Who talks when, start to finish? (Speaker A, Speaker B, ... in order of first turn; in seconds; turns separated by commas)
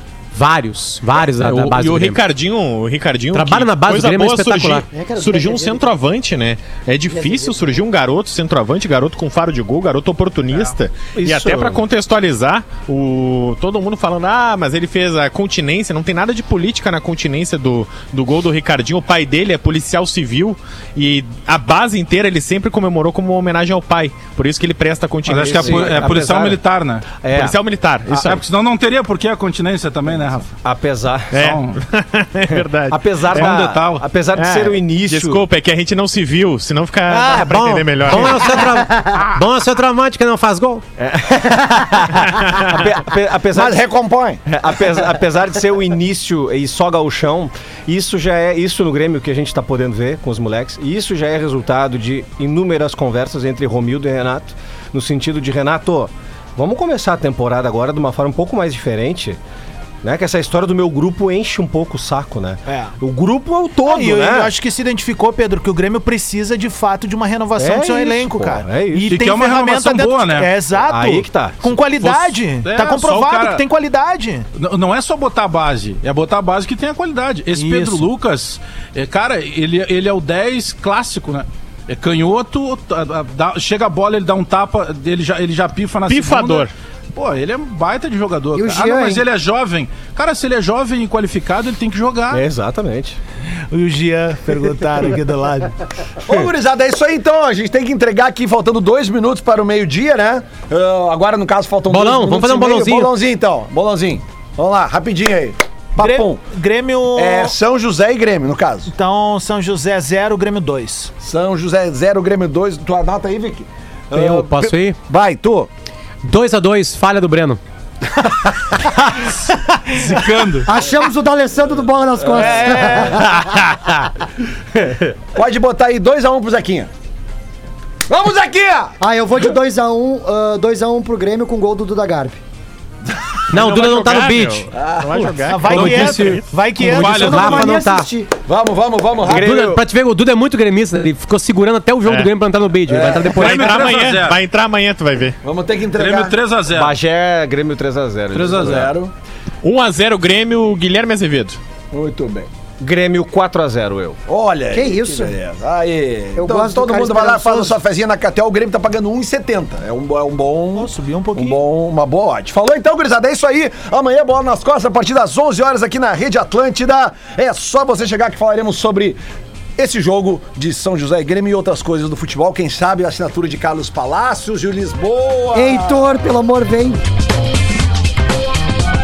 Speaker A: 0.3-2.2, Speaker B: 1.1-26.2, Speaker A: 3.3-4.8, Speaker C: 4.9-5.9, Speaker C: 7.1-7.8, Speaker D: 11.1-11.8, Speaker E: 25.2-27.2, Speaker D: 25.3-26.6, Speaker D: 27.1-27.5, Speaker B: 27.3-28.4, Speaker E: 28.1-30.6, Speaker D: 30.6-31.3, Speaker E: 31.3-31.8, Speaker B: 31.3-33.5, Speaker D: 32.5-35.4, Speaker E: 33.3-34.1, Speaker B: 34.3-38.8, Speaker F: 37.1-37.4, Speaker D: 37.3-37.8, Speaker A: 37.5-40.8, Speaker D: 41.0-43.8, Speaker B: 42.3-42.9, Speaker G: 43.5-44.4, Speaker D: 44.5-59.4, Speaker D: 60.0-64.5, Speaker F: 62.7-63.0, Speaker F: 63.8-74.5, Speaker D: 67.6-69.1, Speaker E: 69.1-70.5, Speaker D: 70.8-71.7, Speaker E: 72.0-73.6, Speaker E: 74.5-92.4, Speaker F: 77.5-78.1, Speaker B: 86.1-86.7, Speaker C: 88.5-89.2, Speaker D: 92.3-93.2, Speaker F: 93.7-95.8, Speaker G: 96.2-106.4, Speaker A: 101.9-103.1, Speaker F: 106.0-107.5, Speaker G: 107.2-108.9, Speaker F: 108.9-111.1, Speaker G: 111.2-115.7, Speaker A: 114.1-115.0, Speaker A: 116.2-117.6, Speaker E: 119.9-120.7, Speaker C: 120.7-123.3, Speaker G: 122.2-122.9, Speaker F: 122.4-123.1, Speaker B: 123.4-123.9, Speaker G: 125.3-126.9, Speaker G: 128.1-128.9, Speaker C: 129.0-132.4, Speaker A: 133.5-134.7, Speaker B: 133.5-136.4, Speaker G: 134.7-135.3, Speaker F: 135.4-137.7, Speaker A: 135.7-138.1, Speaker E: 136.8-137.7, Speaker C: 136.9-138.3, Speaker G: 138.5-139.5, Speaker D: 139.2-139.8, Speaker A: 139.3-143.8, Speaker B: 142.0-142.3, Speaker G: 142.9-143.4, Speaker B: 143.3-145.4, Speaker E: 143.4-144.4, Speaker G: 145.4-146.4, Speaker E: 146.0-146.9, Speaker D: 146.7-148.9, Speaker E: 148.3-148.9, Speaker G: 148.3-149.1, Speaker B: 149.6-151.6, Speaker G: 151.9-152.5, Speaker D: 152.8-154.2, Speaker G: 154.3-169.2, Speaker C: 154.7-155.3, Speaker C: 156.4-157.8, Speaker F: 160.7-161.6, Speaker G: 169.8-176.1, Speaker C: 175.5-177.0